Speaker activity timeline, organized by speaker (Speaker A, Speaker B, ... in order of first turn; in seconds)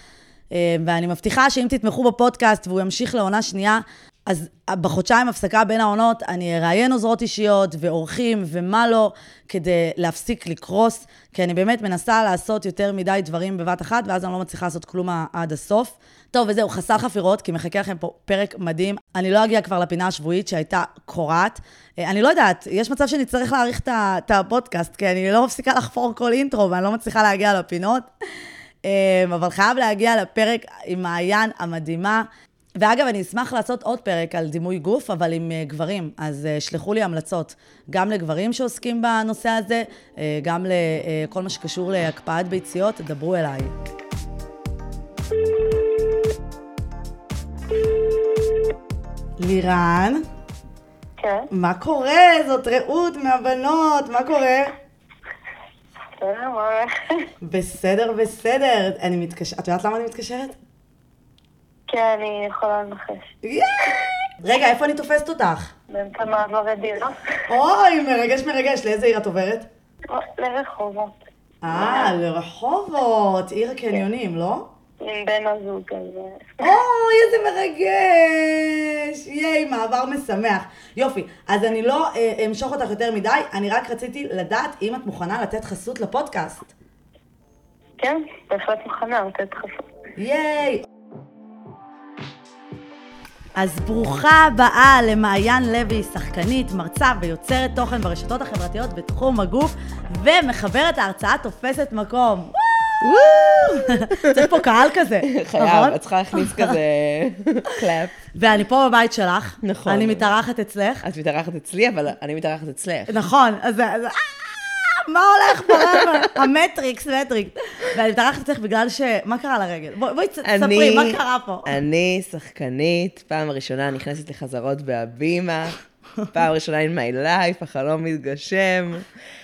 Speaker A: 0.5-28.1, 28.8-32.3, 32.8-43.7, 49.4-50.2, 51.5-54.7, 57.4-60.5, 63.4-65.7, 67.5-69.7, 71.6-74.7, 76.6-86.7, 90.2-90.8, 93.5-102.9, 103.7-106.8, 108.3-111.0, 113.1-121.7
Speaker B: 51.2-51.5, 56.1-57.3, 61.9-63.3, 65.9-67.4, 70.1-71.2, 71.7-72.1, 75.0-76.8, 88.0-89.8
Speaker C: 103.0-104.5, 105.3-108.2, 109.6-110.3, 111.0-113.2, 120.4-125.8, 126.3-129.0